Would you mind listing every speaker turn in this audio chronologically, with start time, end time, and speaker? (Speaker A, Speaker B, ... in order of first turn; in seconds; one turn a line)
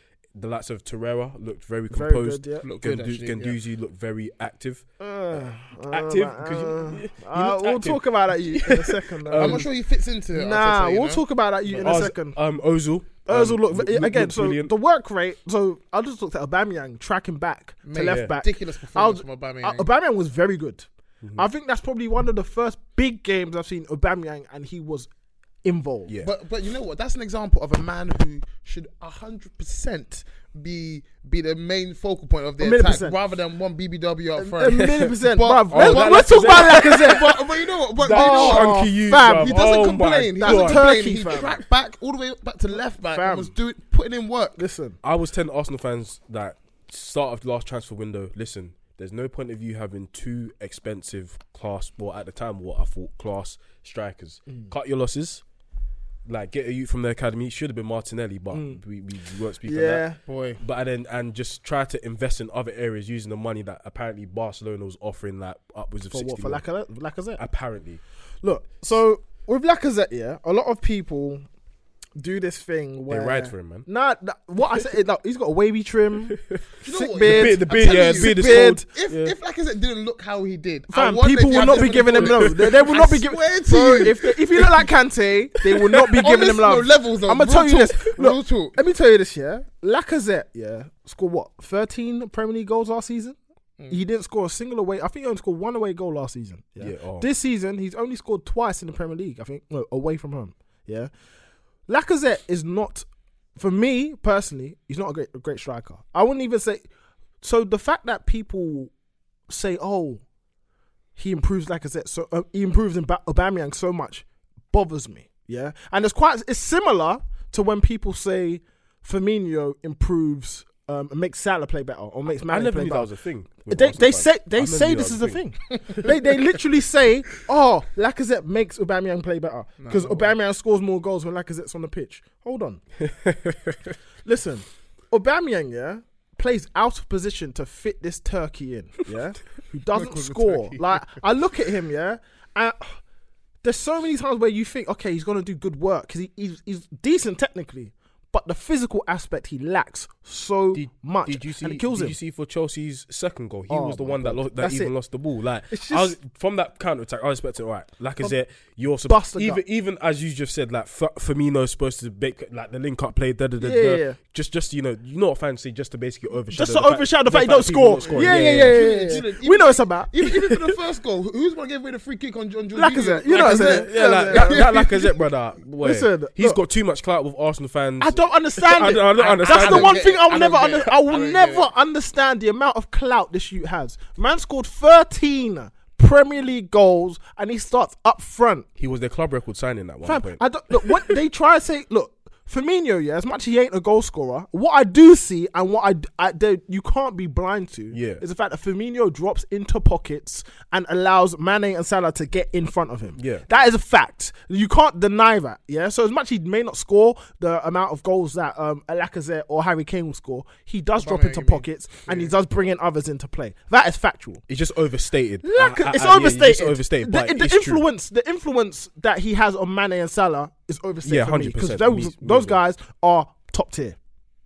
Speaker A: 0.3-4.8
Speaker B: 1.9-2.6
Speaker C: 2.6-3.6
Speaker B: 5.0-9.7
Speaker A: 5.9-9.7
Speaker C: 9.4-11.2
Speaker B: 10.3-12.4
Speaker A: 11.7-14.7
Speaker B: 13.2-25.1
Speaker C: 17.8-19.9
Speaker A: 18.0-18.3
Speaker B: 25.6-26.1
Speaker C: 26.2-44.6
Speaker B: 32.6-33.2
Speaker B: 34.4-37.5
Speaker A: 34.7-35.1
Speaker A: 35.7-37.4
Speaker A: 38.0-41.0
Speaker B: 38.0-39.7
Speaker B: 40.4-41.6
Speaker B: 43.0-43.5
Speaker B: 44.6-45.0
Speaker A: 45.0-55.4
Speaker A: 56.2-60.0
Speaker B: 58.5-58.8
Speaker B: 59.6-60.2
Speaker C: 60.2-60.6
Speaker A: 60.6-66.6
Speaker B: 66.1-67.4
Speaker A: 67.4-68.0
Speaker B: 68.4-71.4
Speaker B: 72.2-78.9
Speaker A: 73.1-73.8
Speaker A: 76.3-76.6
Speaker C: 76.8-84.7
Speaker A: 77.2-79.3
Speaker B: 80.9-93.4
Speaker A: 81.7-82.9
Speaker A: 85.7-86.2
Speaker C: 86.2-88.8
Speaker B: 93.9-101.1
Speaker A: 96.8-97.3
Speaker B: 101.9-103.0
Speaker B: 103.6-106.9
Speaker B: 107.4-108.9
Speaker B: 109.5-110.2
Speaker B: 111.2-123.1
Speaker A: 122.3-126.0
Speaker B: 123.7-132.8
Speaker C: 129.8-130.3
Speaker A: 133.0-133.9
Speaker B: 134.2-143.0
Speaker C: 139.9-141.1
Speaker B: 143.6-152.2
Speaker A: 150.7-168.8
Speaker B: 153.7-154.9
Speaker B: 155.7-156.2
Speaker B: 159.1-159.6
Speaker B: 163.6-164.2
Speaker B: 166.5-170.2
Speaker C: 168.0-174.8
Speaker B: 172.7-175.2
Speaker A: 173.3-180.0
Speaker B: 175.8-176.6
Speaker B: 178.0-188.7
Speaker C: 179.2-181.7
Speaker A: 188.8-191.1
Speaker B: 190.0-214.4
Speaker A: 197.9-198.2
Speaker A: 203.2-203.4
Speaker C: 211.0-212.3
Speaker A: 214.5-217.8
Speaker B: 215.4-224.0
Speaker A: 221.0-222.6